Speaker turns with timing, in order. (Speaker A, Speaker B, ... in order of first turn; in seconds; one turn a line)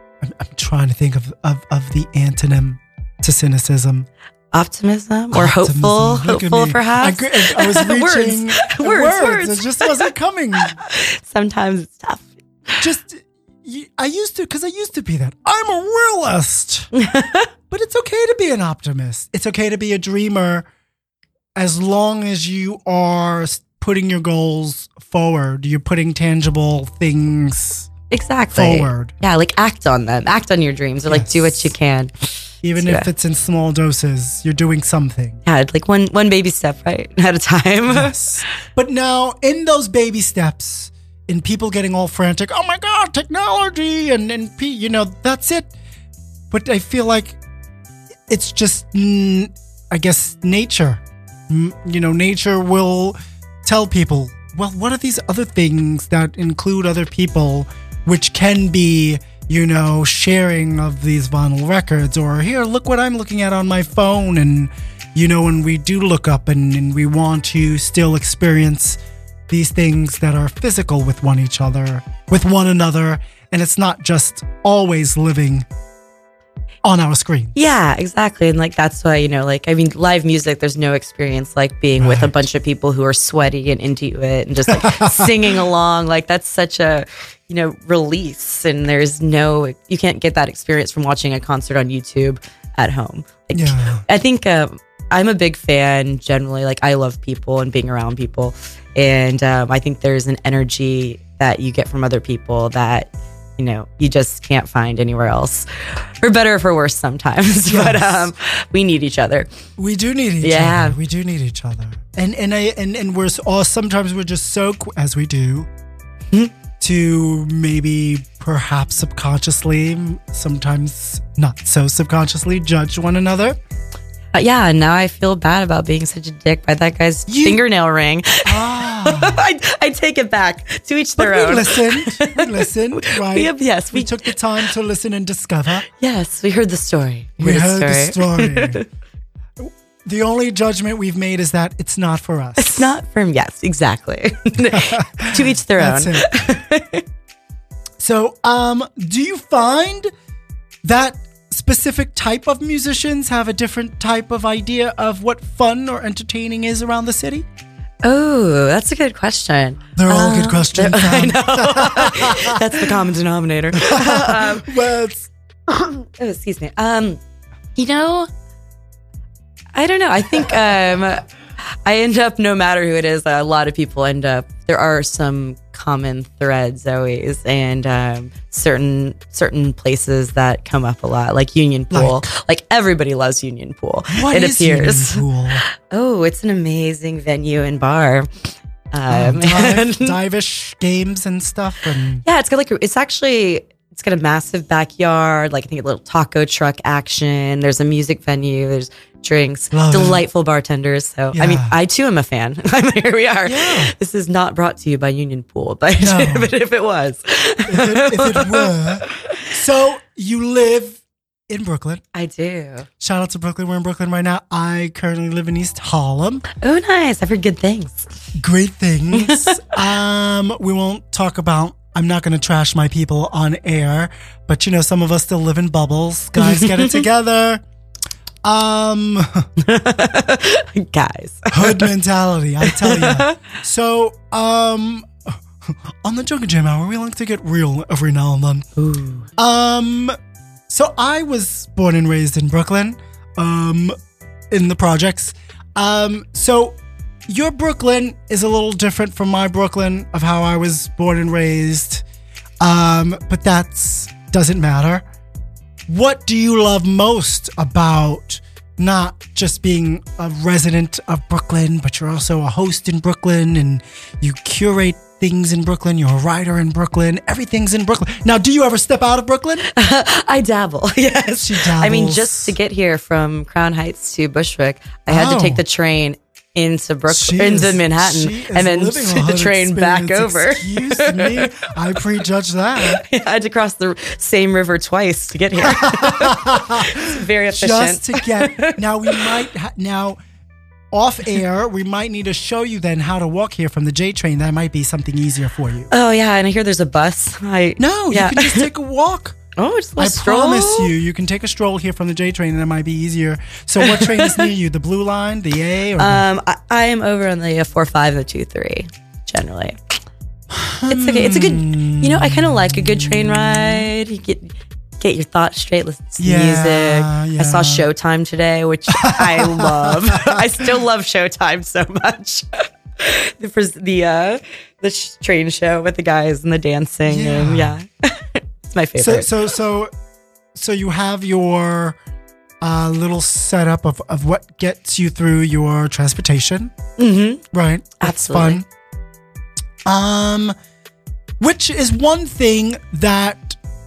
Speaker A: 0.2-4.1
Speaker B: 4.5-10.1
Speaker A: 5.3-10.8
Speaker B: 10.8-12.8
Speaker A: 12.8-16.9
Speaker B: 16.9-17.5
Speaker A: 17.7-20.7
Speaker A: 21.6-27.9
Speaker B: 28.1-33.1
Speaker A: 28.5-29.1
Speaker A: 31.1-31.6
Speaker A: 32.6-35.4
Speaker B: 35.5-38.1
Speaker A: 37.9-45.7
Speaker A: 46.5-47.4
Speaker A: 48.3-75.7
Speaker A: 76.8-77.5
Speaker B: 77.5-109.5
Speaker A: 82.0-82.4
Speaker A: 84.7-85.3
Speaker A: 93.5-94.0
Speaker A: 107.7-108.3
Speaker A: 109.8-115.7
Speaker B: 110.4-110.9
Speaker A: 116.8-123.6
Speaker B: 124.3-134.2
Speaker A: 127.3-127.6
Speaker A: 128.4-129.4
Speaker A: 131.2-135.8
Speaker B: 136.0-138.8
Speaker A: 137.4-138.8
Speaker A: 139.6-142.9
Speaker B: 142.6-147.0
Speaker A: 144.7-146.3
Speaker A: 148.0-150.1
Speaker A: 150.8-157.4
Speaker B: 158.0-164.7
Speaker A: 159.9-162.8
Speaker A: 163.7-165.3
Speaker B: 165.7-167.2
Speaker B: 167.8-168.3
Speaker B: 169.7-185.2
Speaker A: 181.9-182.2
Speaker A: 184.1-185.6
Speaker B: 185.8-188.3
Speaker B: 188.9-190.2
Speaker A: 189.1-192.2
Speaker B: 192.2-209.4
Speaker A: 199.7-200.2
Speaker A: 201.3-201.7
Speaker A: 203.4-203.9
Speaker A: 206.0-206.5
Speaker A: 207.7-212.0
Speaker B: 212.1-212.9
Speaker A: 213.0-216.4
Speaker B: 216.6-218.1
Speaker A: 218.4-227.6
Speaker B: 219.1-219.8
Speaker B: 226.4-227.0
Speaker A: 228.4-229.5
Speaker B: 229.6-231.9
Speaker A: 231.5-238.7
Speaker B: 232.6-233.4
Speaker B: 238.8-239.3
Speaker A: 239.4-240.2
Speaker A: 240.7-243.9
Speaker A: 244.5-252.0
Speaker A: 252.6-255.0
Speaker A: 255.9-269.7
Speaker B: 269.7-281.7
Speaker A: 271.4-272.6
Speaker A: 275.1-275.6
Speaker A: 277.1-283.0
Speaker B: 282.8-289.3
Speaker A: 285.6-290.2
Speaker A: 290.9-295.9
Speaker B: 295.9-298.7
Speaker A: 297.8-299.4
Speaker B: 299.6-300.9
Speaker A: 300.0-306.2
Speaker B: 303.8-304.5
Speaker B: 306.0-309.8
Speaker A: 310.5-313.9
Speaker B: 310.9-329.3
Speaker A: 316.2-317.9
Speaker A: 318.9-320.4
Speaker A: 327.1-327.8
Speaker A: 329.0-329.9
Speaker A: 330.5-332.0
Speaker A: 332.6-336.7
Speaker B: 337.0-337.4
Speaker A: 337.5-338.6
Speaker B: 338.0-338.6
Speaker A: 339.9-340.5
Speaker A: 341.4-343.6